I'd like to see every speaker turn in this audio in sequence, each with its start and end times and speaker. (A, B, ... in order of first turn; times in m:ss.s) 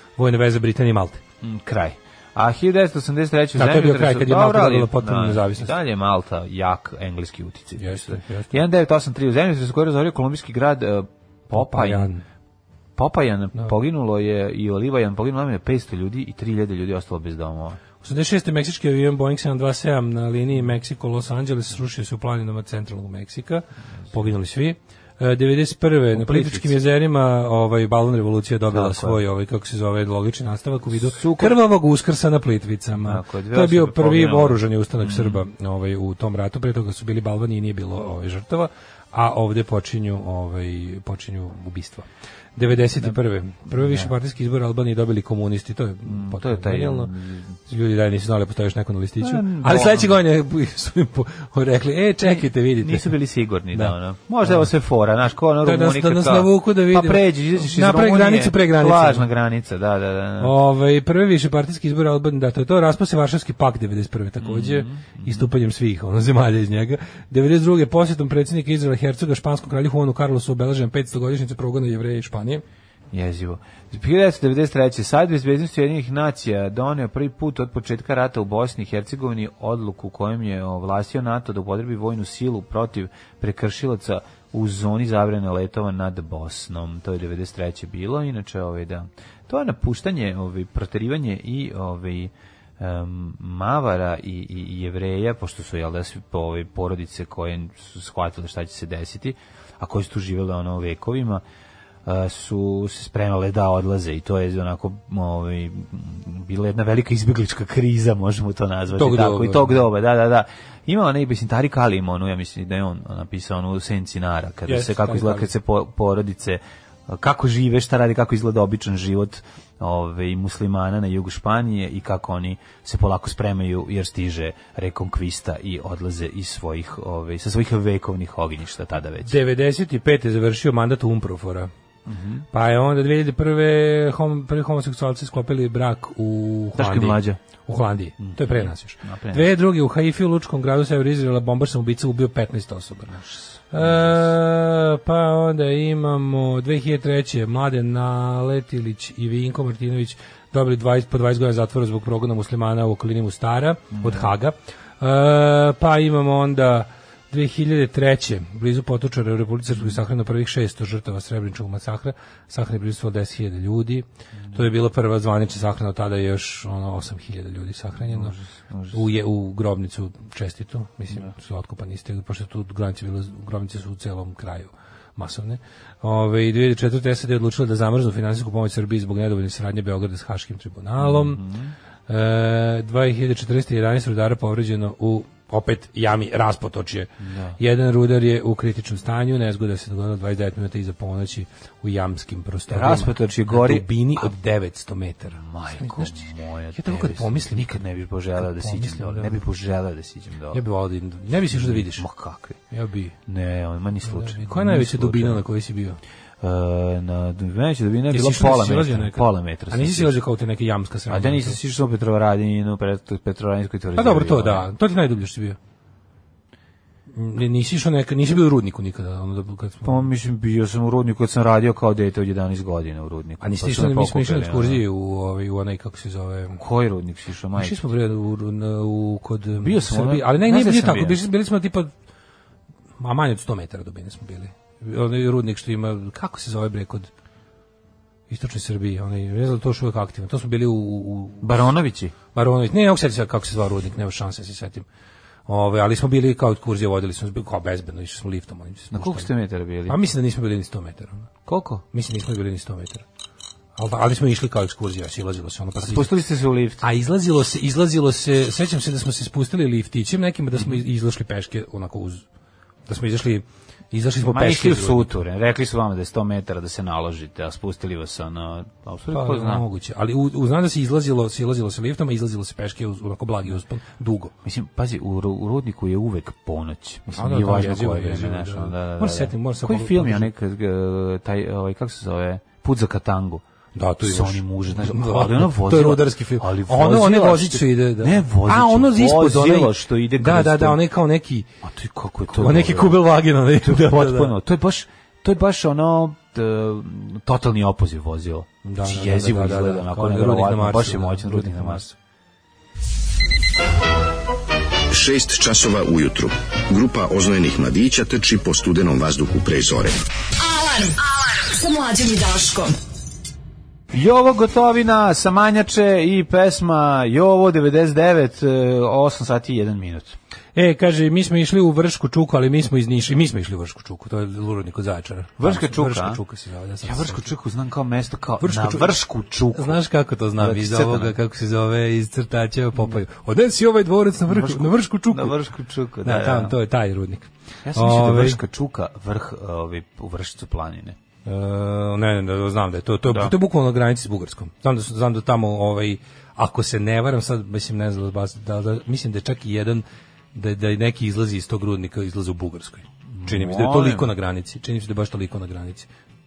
0:00.2-0:01.2 A
0:01.4-0:12.1 B
0:03.6-0:05.7 A
0:07.8-0:08.6 A
0:11.5-0:12.2 A
0:13.0-0:17.8 B
0:18.0-0:47.1 A
0:26.2-0:26.7 B
0:28.7-0:29.2 B
0:31.0-0:31.6 B
0:33.0-0:35.4 B
0:43.7-0:44.1 B
0:46.1-0:47.6 B
0:47.7-0:53.1 A
0:49.2-0:50.2 B
0:52.3-1:00.5 B
0:53.7-0:54.7 A
0:55.6-0:59.3 A
1:00.4-1:12.6 A
1:04.4-1:05.5 B
1:13.1-1:41.4 B
1:42.1-2:09.4 B
1:49.0-1:49.8 A
1:54.7-1:55.5 A
2:09.2-2:11.7 A
2:12.1-2:12.4 B
2:12.5-2:23.2 A
2:16.8-2:17.4 B
2:18.2-2:19.5 B
2:23.1-2:24.2 B
2:23.7-2:48.4 A
2:33.9-2:34.3 B
2:48.1-2:49.1 B
2:48.9-3:01.4 A
3:01.0-3:01.8 B
3:02.1-3:16.2 A
3:07.2-3:07.6 B
3:12.7-3:14.3 B
3:15.4-3:20.6 B
3:16.7-3:17.8 A
3:18.4-3:19.4 A
3:20.5-3:22.1 A
3:21.5-3:22.6 B
3:22.7-3:23.2 A
3:23.3-3:25.4 B
3:24.0-3:26.0 A
3:26.4-3:30.2 B
3:28.1-3:31.6 A
3:31.1-3:34.7 B
3:34.0-3:35.6 A
3:37.1-3:40.1 A
3:39.8-3:44.8 B
3:43.4-3:46.6 A
3:46.6-3:47.8 B
3:47.6-3:51.9 A
3:49.6-3:51.2 B
3:53.0-3:57.1 A
3:58.3-4:01.5 A
4:01.4-4:02.1 B
4:02.3-4:04.9 A
4:05.5-4:09.3 A
4:08.9-4:10.0 B
4:09.9-4:11.3 A
4:11.5-4:11.8 B
4:11.9-4:13.0 A
4:13.8-4:16.1 A
4:15.8-4:16.8 B
4:16.8-4:22.2 A
4:22.9-4:25.1 A
4:24.3-4:29.6 B
4:29.1-4:34.3 A
4:34.4-4:43.4 B
4:37.1-4:40.3 A
4:43.8-4:51.5 A
4:44.0-4:50.8 B
4:51.6-5:01.8 B
4:52.3-4:54.4 A
4:58.7-5:02.0 A
5:04.9-5:10.0 C
5:10.4-5:12.8 D
5:13.9-5:20.2 B
5:20.6-5:27.3 A
5:25.4-5:26.2 B
5:26.8-5:29.8 B
5:28.4-5:29.0 A
5:29.5-5:35.4 A
5:30.4-5:31.1 B
5:34.3-5:36.5 B
5:36.0-5:38.4 A
5:37.6-5:41.0 B
5:41.2-5:55.9 A
5:43.1-5:43.3 B
5:53.1-5:54.1 B